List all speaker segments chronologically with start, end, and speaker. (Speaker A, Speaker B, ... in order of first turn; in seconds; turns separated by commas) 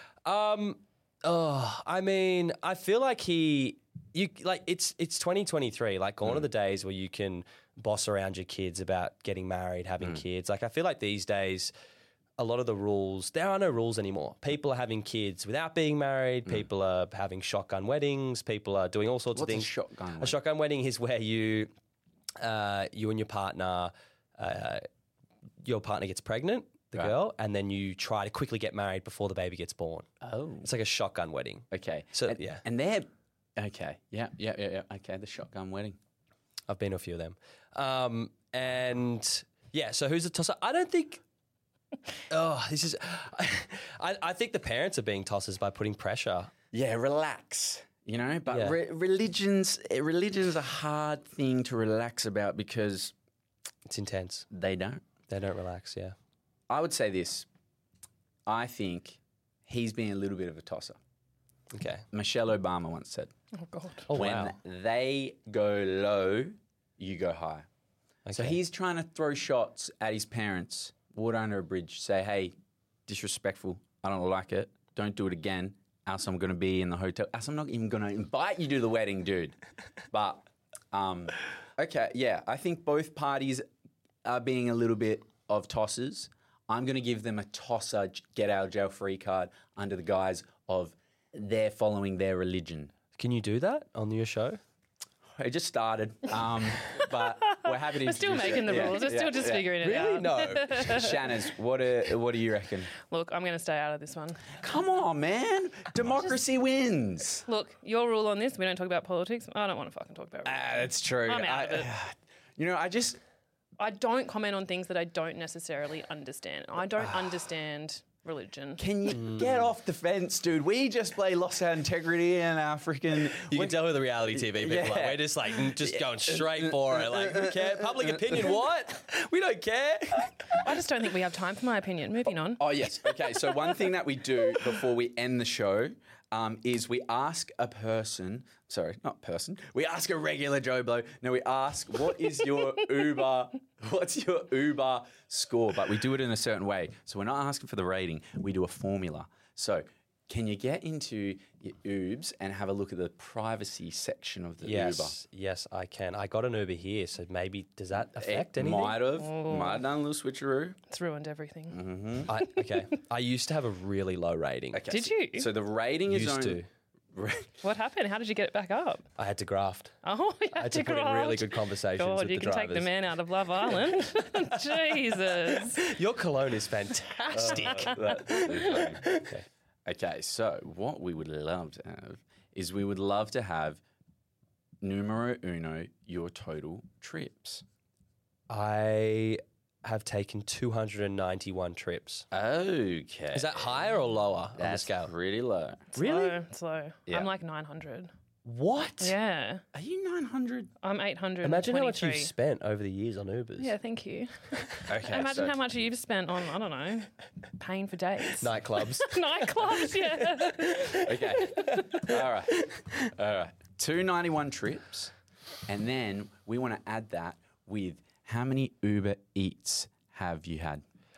Speaker A: 0.2-11.7, Speaker A: 12.4-21.7, Speaker B: 19.3-20.4, Speaker A: 22.4-24.9, Speaker A: 25.6-30.1, Speaker B: 30.2-30.7, Speaker A: 30.6-32.6, Speaker B: 31.7-36.0, Speaker A: 36.7-41.2, Speaker A: 42.3-46.5, Speaker B: 46.7-53.1, Speaker A: 48.5-48.8, Speaker A: 53.9-54.5, Speaker B: 54.5-55.0, Speaker A: 55.3-56.1, Speaker B: 56.7-57.5, Speaker B: 58.5-61.0, Speaker A: 61.7-62.0, Speaker B: 62.1-63.3, Speaker C: 63.6-64.1, Speaker A: 64.1-64.5, Speaker B: 64.1-67.7, Speaker A: 68.3-68.6, Speaker B: 68.3-72.5, Speaker B: 73.1-79.5, Speaker B: 80.1-83.7, Speaker B: 84.2-92.9, Speaker A: 93.2-94.6, Speaker B: 95.4-99.8, Speaker C: 97.5-101.2, Speaker A: 98.7-98.9, Speaker A: 99.8-101.1, Speaker B: 100.8-102.9, Speaker C: 103.1-104.5, Speaker B: 104.6-107.5, Speaker C: 107.5-111.9, Speaker B: 110.5-113.2, Speaker C: 113.8-118.8, Speaker B: 117.0-117.3, Speaker B: 118.8-128.6, Speaker A: 119.1-119.7, Speaker A: 123.4-130.7, Speaker C: 130.5-132.6, Speaker B: 132.6-155.2, Speaker A: 154.6-159.0, Speaker B: 158.1-160.8, Speaker C: 159.2-159.8, Speaker C: 160.9-161.8, Speaker B: 161.7-162.3, Speaker A: 162.3-164.9, Speaker B: 164.7-166.6, Speaker C: 164.9-165.5, Speaker A: 166.1-166.7, Speaker B: 167.1-167.5, Speaker C: 167.6-169.1, Speaker A: 169.2-169.9, Speaker C: 170.0-175.8, Speaker A: 170.5-172.9, Speaker A: 175.8-179.4, Speaker C: 177.3-178.5, Speaker B: 177.3-179.1, Speaker B: 179.9-183.8, Speaker B: 184.8-187.6, Speaker A: 188.5-192.2, Speaker B: 192.3-193.9, Speaker A: 193.3-195.1, Speaker B: 194.6-195.8, Speaker C: 195.9-198.1, Speaker A: 196.0-196.4, Speaker A: 198.4-199.2, Speaker C: 199.0-199.6, Speaker B: 199.7-200.7, Speaker C: 200.8-202.3, Speaker A: 201.4-203.8, Speaker C: 203.6-212.1, Speaker B: 204.9-205.6, Speaker A: 208.4-213.0, Speaker B: 211.1-215.1, Speaker B: 215.7-220.8